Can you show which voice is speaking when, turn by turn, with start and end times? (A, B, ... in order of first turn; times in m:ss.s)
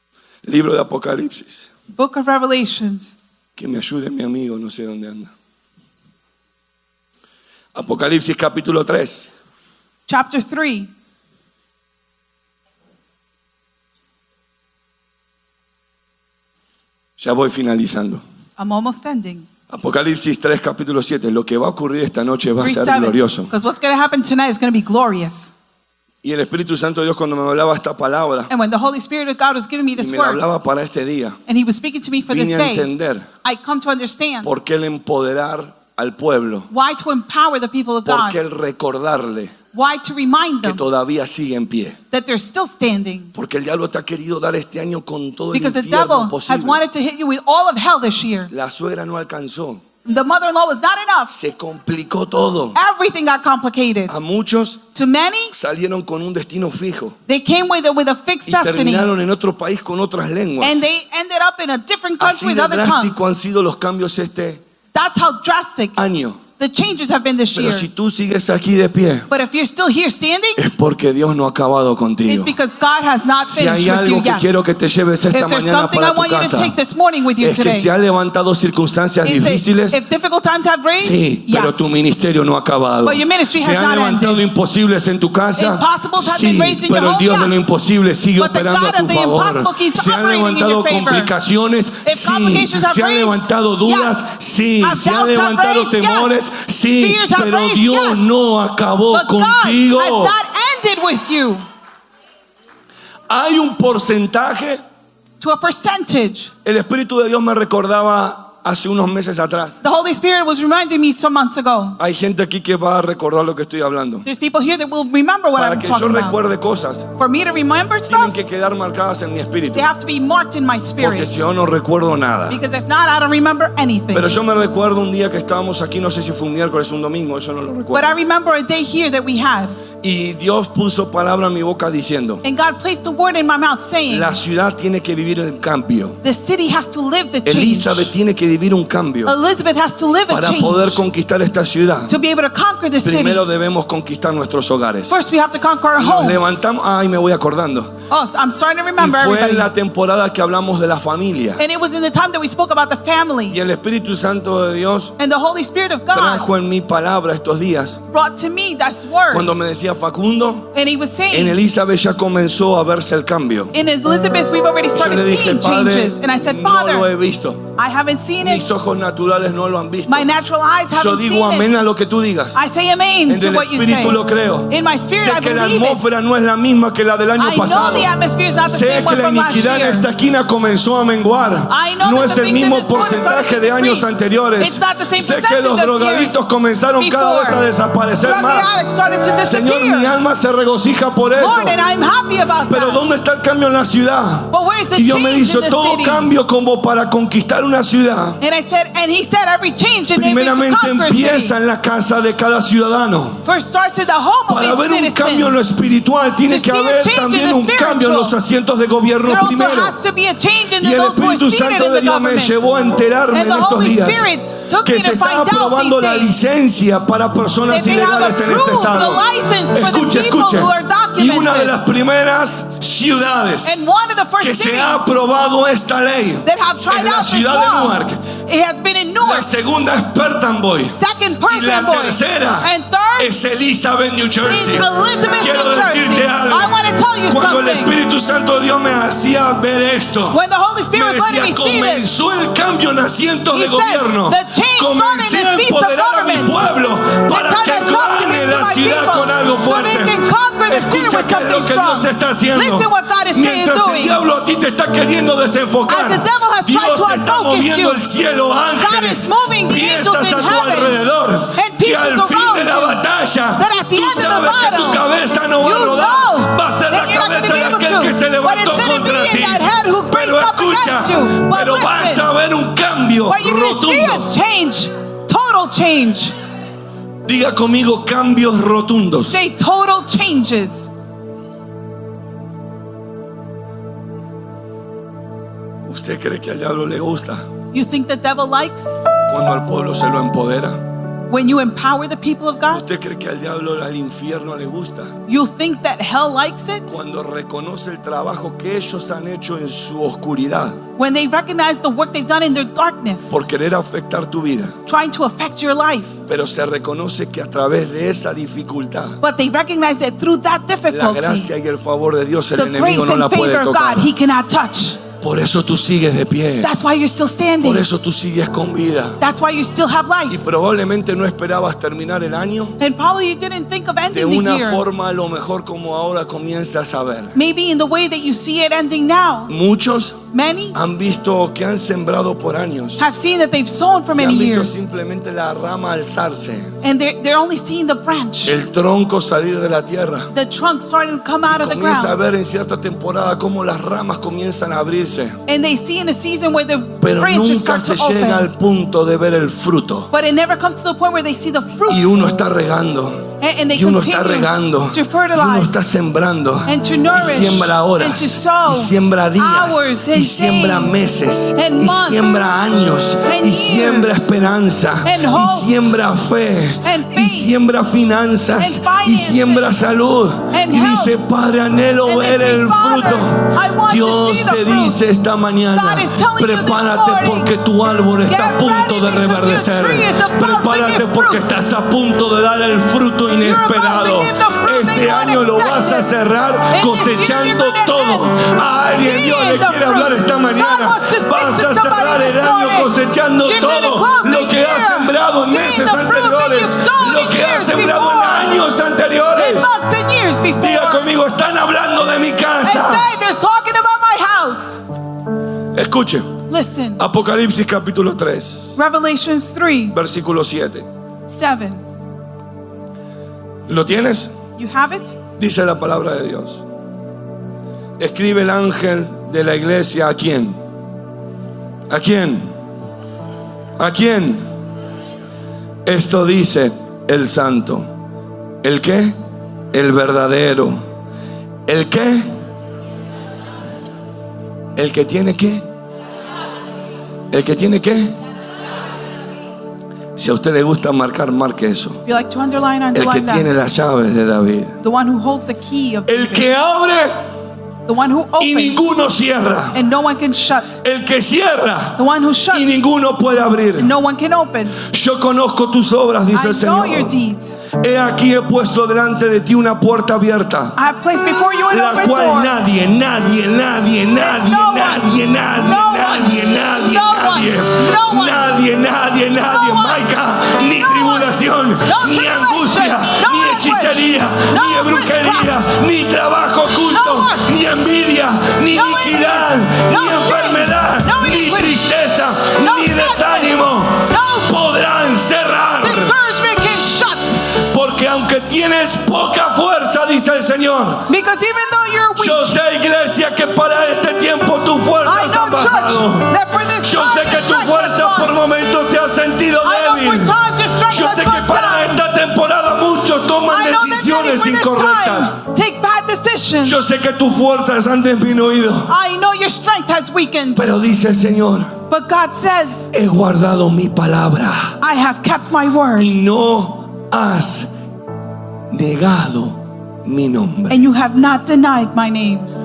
0:00.4-0:01.7 A
0:01.9-0:03.2 B
0:03.6-0:05.3 A
0:07.7-0:09.3 A
0:10.1-0:10.9 B
0:17.2-0:18.2 A
0:18.6-0:19.5 B
0:19.7-0:23.5 A
0:22.6-0:25.5 B
0:26.2-0:28.5 A
0:28.5-0:30.4 B
0:30.0-0:31.4 A
0:31.5-0:32.9 B
0:32.3-0:33.3 A
0:33.4-0:34.5 B
0:34.4-0:36.7 A
0:36.7-0:38.4 B
0:38.0-0:39.6 A
0:39.7-0:40.8 B
0:40.6-0:42.0 A
0:42.1-0:43.3 B
0:43.3-0:46.8 A
0:45.5-0:48.5 B
0:48.5-0:49.8 A
0:50.0-0:51.3 B
0:51.3-0:52.8 A
0:52.8-0:54.1 B
0:54.1-0:54.8 A
0:55.0-0:55.5 B
0:55.5-0:57.2 A
0:57.3-0:59.1 B
0:58.5-1:00.8 A
1:00.6-1:03.2 B
1:02.2-1:04.6 A
1:04.9-1:06.0 B
1:06.0-1:06.4 A
1:06.6-1:07.9 B
1:07.5-1:09.3 A
1:09.3-1:10.6 B
1:10.6-1:12.5 A
1:12.3-1:14.6 B
1:13.4-1:16.8 A
1:15.3-1:17.9 B
1:17.4-1:20.0 A
1:19.2-1:22.0 B
1:20.9-1:40.4 A
1:23.0-1:24.4 B
1:25.6-1:27.7 B
1:28.4-1:31.3 B
1:32.0-1:34.2 B
1:34.8-1:36.3 B
1:37.0-1:38.3 B
1:39.1-1:41.6 B
1:43.3-1:44.8 A
1:45.4-1:46.5 B
1:46.6-1:49.8 A
1:49.8-1:52.0 B
1:52.0-1:54.3 A
1:54.3-1:56.4 B
1:55.6-1:57.1 A
1:57.2-1:58.4 B
1:58.1-1:59.9 A
1:59.7-2:01.3 B
2:01.0-2:02.6 A
2:02.5-2:04.3 B
2:04.1-2:08.1 A
2:07.9-2:09.8 B
2:10.0-2:12.4 A
2:12.4-2:14.3 B
2:14.1-2:16.2 A
2:16.2-2:18.1 B
2:17.4-2:19.4 A
2:19.2-2:21.0 B
2:20.3-2:22.1 A
2:22.1-2:23.5 B
2:23.0-2:25.2 A
2:25.1-2:26.7 B
2:26.0-2:28.0 A
2:28.1-2:29.7 B
2:29.0-2:31.6 A
2:31.6-2:33.6 B
2:33.5-2:35.2 A
2:35.2-2:36.5 B
2:36.1-2:38.0 A
2:38.1-2:39.5 B
2:39.3-2:40.7 A
2:40.7-2:41.6 B
2:41.3-2:43.7 A
2:43.7-2:47.1 B
2:44.9-2:47.7 A
2:47.8-2:48.6 B
2:48.4-2:50.3 A
2:50.1-2:51.8 B
2:51.0-2:52.6 A
2:52.6-2:56.1 B
2:53.3-2:58.1 A
2:57.4-3:00.1 B
2:58.7-3:08.8 A
3:01.7-3:06.4 B
3:07.0-3:07.6 B
3:08.2-3:10.1 B
3:09.4-3:11.8 A
3:11.4-3:13.0 B
3:12.7-3:18.4 A
3:14.5-3:16.2 B
3:18.4-3:21.6 B
3:20.2-3:23.4 A
3:23.4-3:25.6 B
3:24.5-3:30.0 A
3:26.4-3:28.4 B
3:29.2-3:32.7 B
3:30.8-3:34.3 A
3:33.3-3:36.3 B
3:34.8-3:43.8 A
3:37.7-3:41.8 B
3:43.6-3:45.1 B
3:44.4-3:48.3 A
3:46.4-3:49.5 B
3:49.2-3:56.7 A
3:50.9-3:53.3 B
3:54.5-3:57.9 B
3:57.3-4:00.4 A
4:00.3-4:02.1 B
4:00.9-4:34.3 A
4:03.5-4:06.7 B
4:07.3-4:14.2 B
4:15.9-4:18.0 B
4:18.8-4:23.0 B
4:23.6-4:25.0 B
4:25.6-4:32.3 B
4:33.3-4:36.4 B
4:37.3-4:39.4 A
4:39.3-4:40.9 B
4:45.9-4:47.4 A
4:47.7-4:49.0 B
4:49.3-4:50.9 A
4:51.3-4:52.8 B
4:52.7-4:55.2 A
4:55.3-4:56.9 B
4:56.9-5:00.8 A
5:01.0-5:03.5 B
5:03.3-5:04.8 A
5:04.9-5:06.2 B
5:06.3-5:09.2 A
5:09.2-5:11.5 B
5:10.9-5:14.1 A
5:12.6-5:15.0 B
5:15.2-5:16.7 A
5:16.6-5:17.8 B
5:17.6-5:19.2 A
5:19.2-5:20.4 B
5:20.3-5:22.8 A
5:22.8-5:24.8 B
5:24.1-5:27.4 A
5:27.4-5:29.5 B
5:29.5-5:30.2 A
5:30.3-5:30.8 B
5:30.7-5:33.0 A
5:33.0-5:34.8 B
5:34.2-5:36.7 A
5:36.8-5:38.6 B
5:38.4-5:40.3 A
5:40.3-5:42.2 B
5:41.5-5:45.4 A
5:45.5-5:48.5 B
5:47.0-5:50.1 A
5:50.1-5:52.2 B
5:51.9-6:39.7 A
5:53.4-5:55.8 B
5:56.7-6:01.0 B
6:01.6-6:02.5 B
6:03.2-6:04.3 B
6:05.0-6:05.7 B
6:06.8-6:07.5 B
6:08.6-6:09.9 B
6:10.5-6:11.2 B
6:12.1-6:15.0 B
6:15.7-6:17.5 B
6:18.3-6:21.6 B
6:23.4-6:26.1 B
6:26.7-6:38.6 B
6:39.4-6:41.1 B
6:40.6-6:43.1 A
6:42.6-6:44.8 B
6:45.7-6:46.4 A
6:46.5-6:47.0 B
6:47.0-6:48.8 A
6:48.8-6:50.0 B
6:49.9-6:50.9 A
6:51.3-6:51.8 B
6:53.7-6:54.4 A
6:54.6-6:55.2 B
6:55.4-6:56.6 A
6:58.0-7:00.6 A
7:01.9-7:02.5 A
7:03.8-7:04.5 A
7:05.9-7:07.9 A
7:08.6-7:09.2 A
7:09.7-7:10.8 A
7:11.7-7:12.4 A
7:14.8-7:15.6 A
7:17.3-7:18.2 A
7:20.2-7:22.0 A
7:22.1-7:23.5 B
7:22.9-7:24.8 A
7:24.8-7:26.5 B
7:26.1-7:27.2 A
7:27.9-7:28.8 B
7:28.4-7:29.8 A
7:29.7-7:30.8 B
7:30.8-7:33.9 A
7:32.0-7:32.8 B
7:33.8-7:34.8 B
7:34.8-7:37.2 A
7:36.3-7:37.6 B
7:37.8-7:40.8 A
7:40.8-7:42.6 B
7:41.7-8:06.2 A
7:44.2-7:48.5 B
7:49.4-7:50.1 B
7:50.8-7:55.6 B
7:56.9-7:57.5 B
7:58.7-8:01.8 B
8:02.6-8:04.5 B
8:05.8-8:07.5 B
8:07.6-8:11.1 A
8:11.1-8:12.5 B
8:12.2-8:16.3 A
8:15.0-8:18.3 B
8:16.8-8:20.4 A
8:19.6-8:22.0 B
8:20.9-8:25.4 A
8:23.5-8:26.8 B
8:26.6-8:28.9 A
8:28.9-8:30.7 B
8:30.6-8:31.8 A
8:31.9-8:32.9 B
8:32.9-8:34.8 A
8:34.8-8:36.1 B
8:36.0-8:37.7 A
8:38.7-8:40.8 A
8:40.7-8:42.5 B